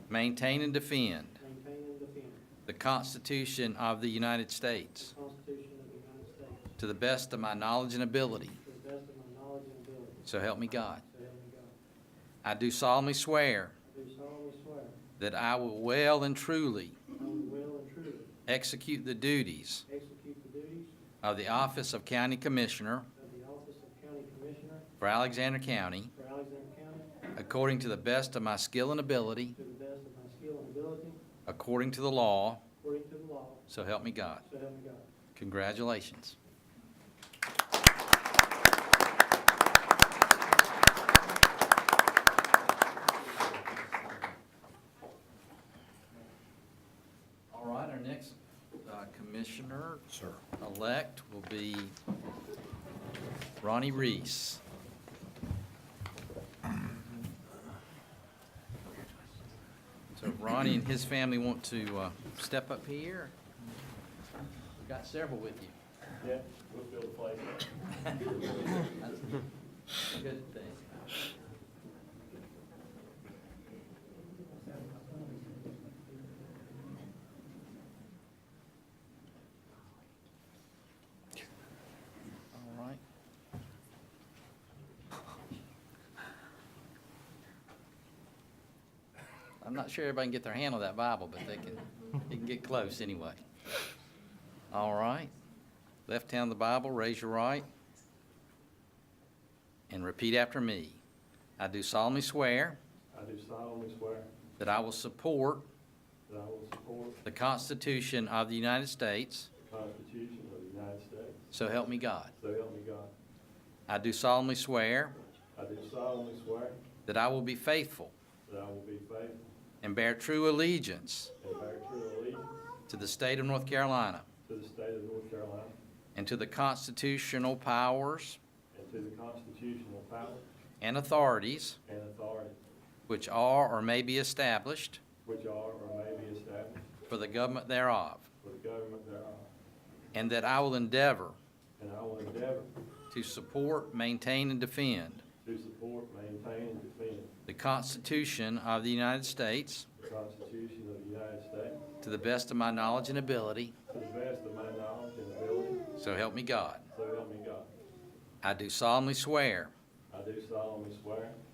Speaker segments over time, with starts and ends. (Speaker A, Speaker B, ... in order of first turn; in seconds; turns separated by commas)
Speaker A: 0.1-1.4, Speaker B: 1.4-2.4, Speaker A: 2.7-5.1, Speaker B: 5.0-6.7, Speaker A: 6.8-8.6, Speaker B: 8.6-10.3, Speaker A: 10.3-11.0, Speaker B: 11.0-11.7, Speaker A: 12.4-13.8, Speaker B: 13.8-15.0, Speaker A: 15.2-17.0, Speaker B: 17.1-18.3, Speaker A: 18.5-19.9, Speaker B: 19.9-21.0, Speaker A: 21.2-23.1, Speaker B: 23.1-24.9, Speaker A: 25.0-26.1, Speaker B: 26.1-27.2, Speaker A: 27.4-29.6, Speaker B: 29.6-31.2, Speaker A: 31.5-32.6, Speaker B: 32.8-33.7, Speaker A: 33.7-34.5, Speaker B: 34.5-35.1, Speaker A: 35.4-36.4, Speaker A: 47.5-52.0, Speaker A: 53.6-54.6, Speaker A: 60.1-63.4, Speaker A: 64.8-65.8, Speaker C: 66.2-67.7, Speaker A: 68.1-71.2, Speaker A: 82.5-83.0, Speaker A: 89.6-93.4, Speaker A: 94.7-95.3, Speaker A: 96.1-97.7, Speaker A: 99.9-101.0, Speaker A: 101.6-102.8, Speaker C: 103.1-104.3, Speaker A: 104.6-105.7, Speaker C: 106.3-107.2, Speaker A: 107.2-109.5, Speaker C: 109.7-111.5, Speaker A: 111.5-112.3, Speaker C: 112.4-113.1, Speaker A: 113.9-115.2, Speaker C: 115.5-116.8, Speaker A: 117.1-118.1, Speaker C: 118.5-119.5, Speaker A: 119.8-121.3, Speaker C: 121.4-122.6, Speaker A: 122.9-124.3, Speaker C: 124.5-125.8, Speaker A: 126.2-128.4, Speaker C: 128.7-130.4, Speaker A: 130.8-131.8, Speaker C: 131.8-132.6, Speaker A: 133.1-135.0, Speaker C: 135.2-136.9, Speaker A: 137.1-138.3, Speaker C: 138.4-139.5, Speaker A: 140.1-141.4, Speaker C: 141.8-142.7, Speaker A: 143.1-145.2, Speaker C: 145.4-147.3, Speaker A: 147.5-149.9, Speaker C: 150.0-151.8, Speaker A: 152.0-153.8, Speaker C: 153.9-155.8, Speaker A: 156.0-156.8, Speaker C: 156.9-157.7, Speaker A: 158.4-159.7, Speaker C: 160.1-161.4